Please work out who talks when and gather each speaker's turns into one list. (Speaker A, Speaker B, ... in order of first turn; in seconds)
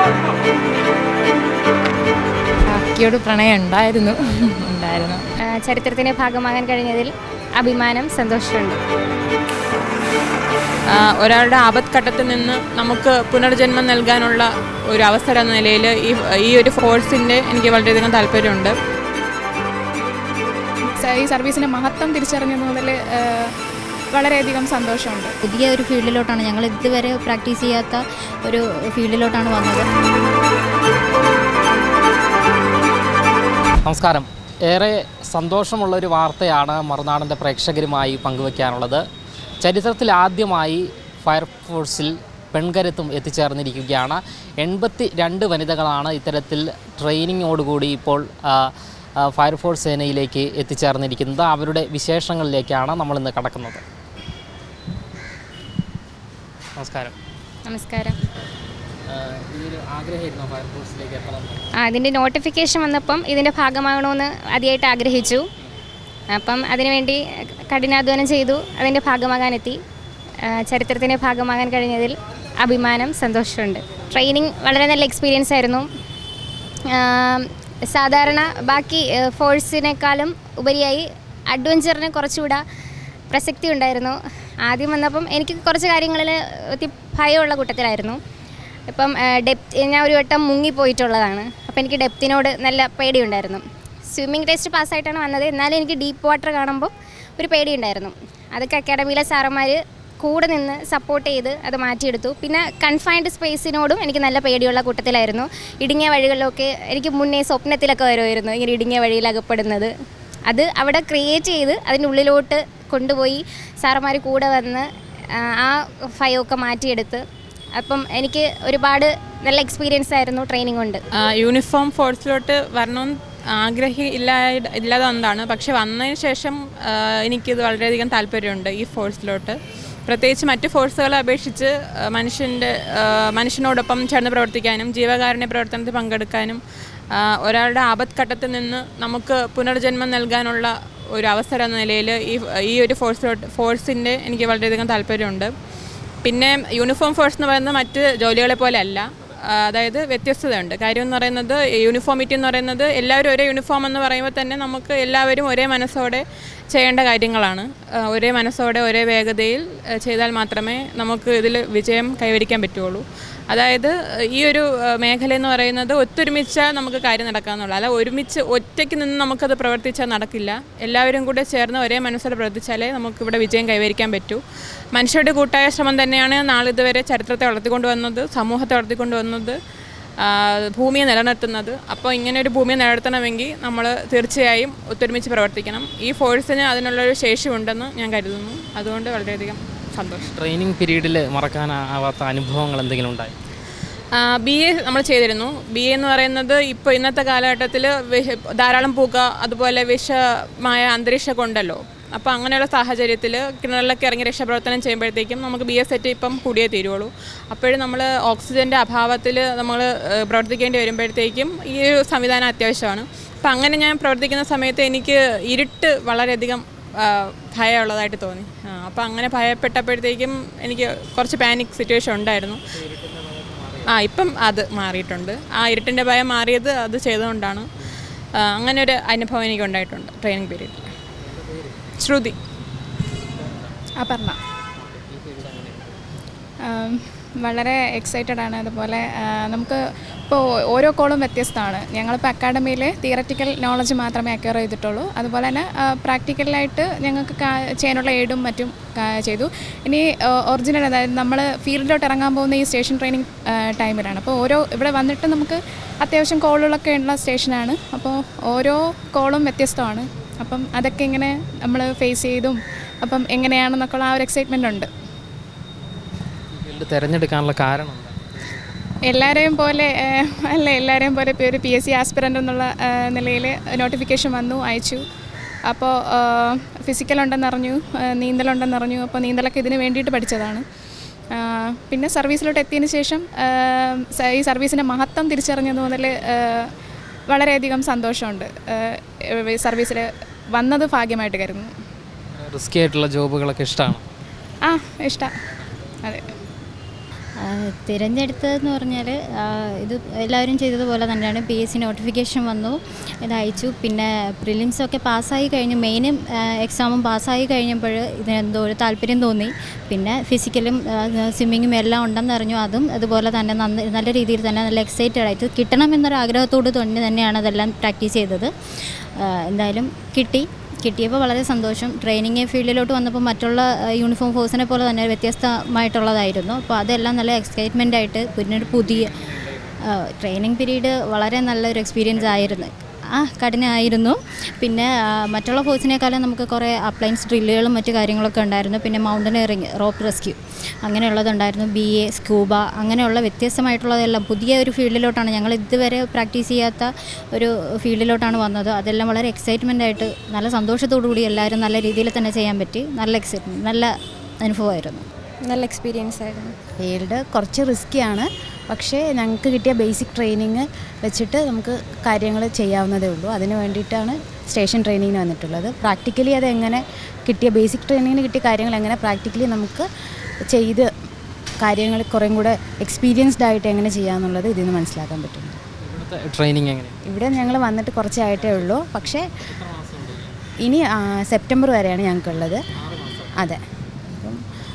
Speaker A: 2.7-5.3
Speaker B: 5.4-8.8, 57.7-58.1, 61.8-65.5, 66.3-69.8, 70.5-75.9, 76.9-82.6, 83.3-88.2, 88.9-109.9, 110.5-117.2, 117.8-121.0
Speaker C: 11.0-18.7, 121.2-136.6, 137.2-145.5, 146.2-174.4, 175.0-179.6, 180.2-190.3, 194.2-222.6, 223.9-227.7, 228.4-230.9, 232.0-232.4
Speaker D: 21.0-23.5, 24.1-25.3, 234.0-234.4, 236.7-239.8, 240.3-264.9, 269.1-275.0, 275.7-280.6, 281.4-286.7, 287.3-290.1, 290.6-291.7, 294.7-295.3
Speaker E: 25.4-29.9, 297.4-318.5, 319.2-329.2, 329.9-355.0
Speaker F: 33.9-39.0, 39.6-48.7, 49.2-53.8, 56.8-57.1, 59.1-61.6, 190.3-193.3, 223.6-223.8, 234.9-235.8, 266.6-268.2, 292.4-294.0, 375.8-376.9, 378.4-380.3, 383.0-383.3
Speaker G: 356.8-369.9, 370.5-370.9, 371.6-375.6, 377.1-379.3, 380.6-382.6, 383.4-384.4